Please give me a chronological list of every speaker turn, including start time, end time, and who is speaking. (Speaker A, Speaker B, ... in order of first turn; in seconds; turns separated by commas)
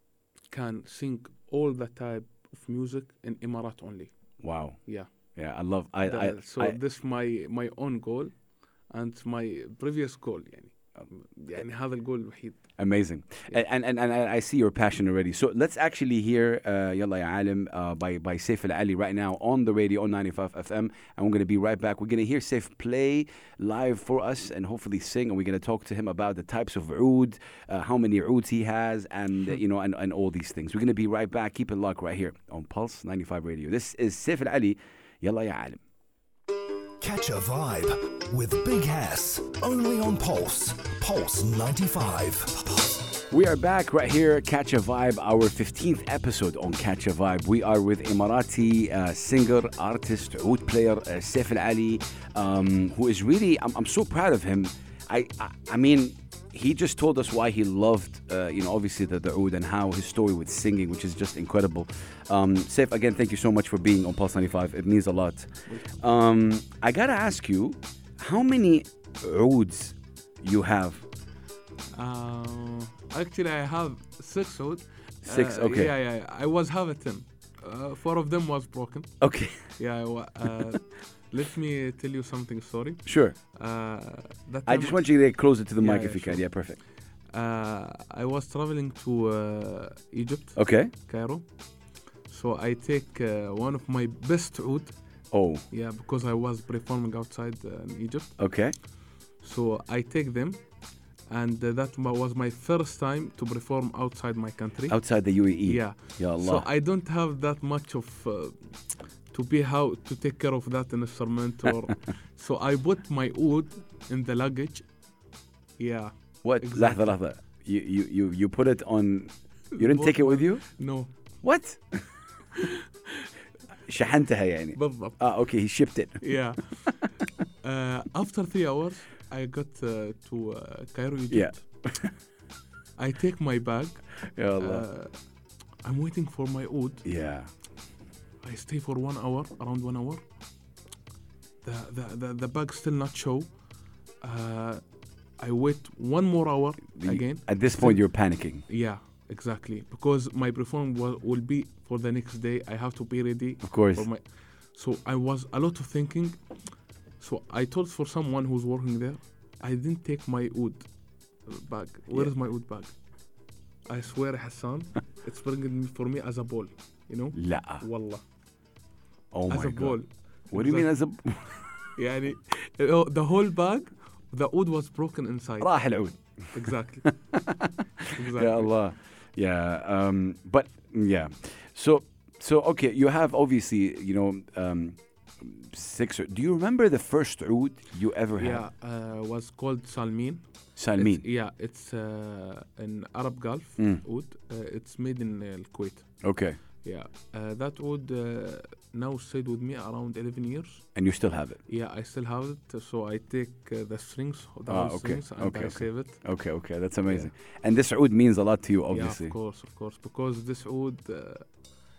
Speaker A: 0.5-4.1, Speaker B: 4.4-6.8, Speaker A: 4.8-5.1, Speaker A: 6.0-12.7, Speaker B: 12.8-35.8, Speaker C: 37.0-43.0, Speaker B: 43.3-71.0, Speaker A: 65.7-66.0, Speaker A: 71.9-79.2, Speaker B: 75.3-75.9, Speaker B: 79.2-79.7, Speaker A: 79.7-85.1, Speaker B: 83.0-83.4, Speaker B: 84.7-86.8, Speaker A: 85.8-86.5, Speaker A: 87.3-91.5, Speaker B: 90.6-90.9, Speaker A: 92.2-95.0, Speaker B: 95.3-95.6, Speaker A: 95.7-98.9, Speaker B: 98.4-98.8, Speaker A: 99.4-105.0, Speaker B: 104.9-106.7, Speaker A: 105.6-108.6, Speaker A: 109.3-114.9, Speaker A: 115.8-117.2, Speaker B: 116.4-120.7, Speaker A: 119.7-121.1, Speaker B: 121.4-122.1, Speaker A: 122.5-123.3, Speaker B: 123.9-126.4, Speaker A: 124.8-125.2, Speaker A: 126.2-131.7, Speaker B: 131.3-132.2, Speaker A: 133.0-135.2, Speaker B: 134.3-134.8, Speaker A: 135.8-137.1, Speaker B: 137.0-137.5, Speaker A: 138.4-140.2, Speaker A: 141.6-143.6, Speaker A: 144.2-144.8, Speaker A: 145.4-156.4, Speaker B: 147.0-148.7, Speaker B: 153.6-154.1, Speaker A: 157.2-160.9, Speaker A: 161.4-162.9, Speaker A: 163.9-168.2, Speaker B: 167.3-167.8, Speaker B: 169.3-171.9, Speaker A: 169.5-170.9, Speaker A: 171.9-175.8, Speaker B: 175.6-176.5, Speaker A: 176.5-177.2, Speaker B: 177.1-188.6, Speaker A: 178.1-178.7, Speaker A: 188.4-200.9, Speaker B: 190.8-191.2, Speaker B: 196.2-196.6, Speaker B: 200.9-201.6, Speaker A: 201.7-206.2, Speaker B: 204.7-209.3, Speaker A: 207.1-207.3, Speaker A: 208.9-211.5